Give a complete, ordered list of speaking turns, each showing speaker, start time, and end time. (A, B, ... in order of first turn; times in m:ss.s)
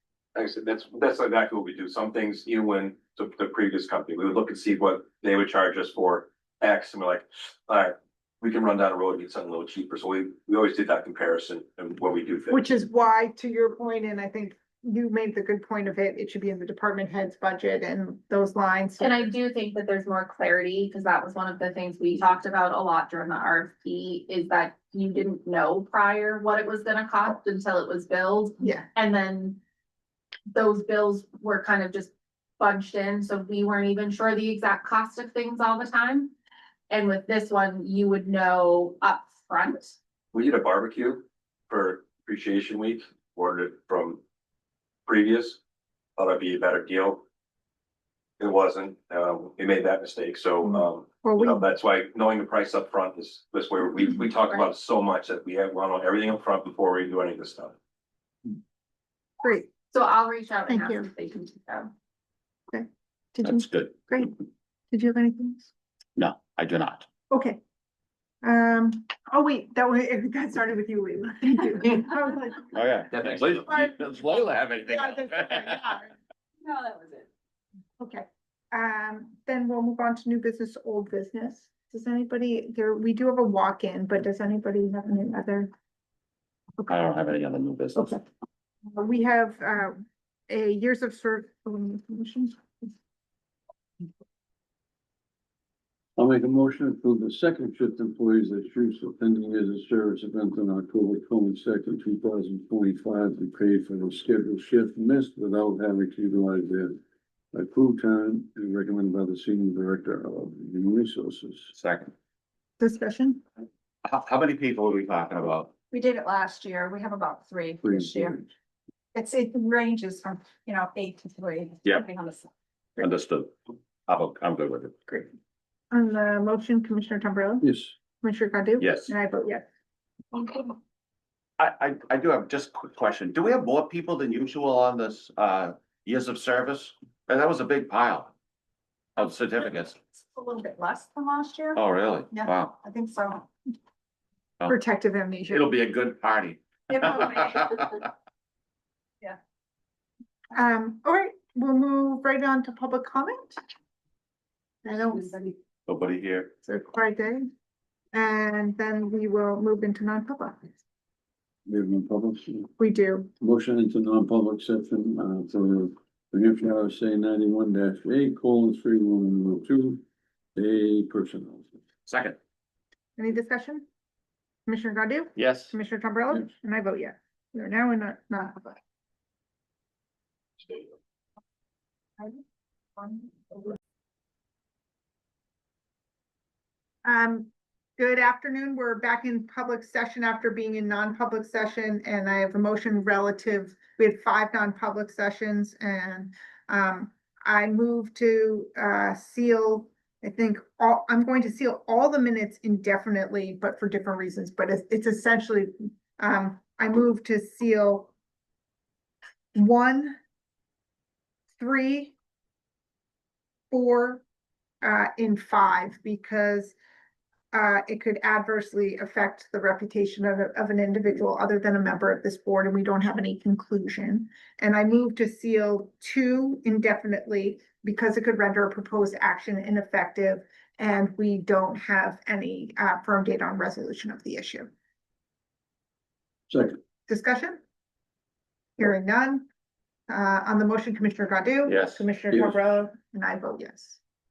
0:00.3-0:12.6 A
0:12.5-0:19.3 B
0:19.0-0:29.6 C
0:28.6-0:28.9 B
0:30.5-0:36.3 C
0:36.9-0:40.0 C
0:40.3-0:44.2 A
0:45.0-0:45.6 A
0:46.2-0:47.2 A
0:48.4-0:57.8 A
0:50.6-0:51.7 B
0:59.4-0:59.7 B
0:59.9-1:01.9 C
1:00.7-1:01.1 B
1:02.7-1:04.4 B
1:03.4-1:03.9 D
1:04.9-1:05.7 B
1:06.2-1:07.0 D
1:07.3-1:07.6 B
1:08.4-1:12.8 B
1:12.7-1:15.9 D
1:13.5-1:14.0 B
1:14.9-1:16.1 B
1:16.7-1:17.0 C
1:18.0-1:25.7 B
1:26.9-1:28.2 D
1:28.8-1:32.9 B
1:36.2-1:47.0 E
1:47.5-1:51.7 E
1:51.8-1:52.1 D
1:52.8-1:53.4 B
1:54.0-1:55.7 D
1:55.9-1:58.4 F
1:57.8-1:58.4 E
1:59.1-2:02.5 F
2:03.0-2:03.5 D
2:04.1-2:05.2 D
2:05.9-2:07.6 B
2:07.6-2:07.9 E
2:08.2-2:09.6 B
2:08.8-2:09.1 D
2:11.6-2:18.3 D
2:19.2-2:20.0 D
2:20.3-2:21.8 F
2:21.7-2:22.8 D
2:22.3-2:23.5 F
2:24.7-2:25.7 B
2:25.5-2:27.8 D
2:26.9-2:27.8 F
2:30.5-2:33.6 B
2:34.8-2:35.5 B
2:35.9-2:36.5 D
2:36.6-2:37.4 B
2:38.1-2:40.6 B
2:41.6-2:42.7 E
2:42.8-2:43.3 B
2:43.4-2:50.0 E
2:50.6-2:51.8 E
2:52.1-2:52.4 D
2:53.2-2:53.8 B
2:54.7-2:58.8 B
2:55.4-2:55.7 D
3:03.0-3:03.7 B
3:07.0-3:28.1 B
3:29.5-3:30.2 B
3:31.6-3:32.1 B
3:33.7-3:34.2 B
3:34.8-3:36.7 B
3:37.5-3:54.7 B
3:56.5-3:56.8 E
3:57.1-3:57.6 B
3:58.8-3:59.5 B
4:00.1-4:04.0 B
4:01.6-4:02.1 D
4:02.3-4:02.6 E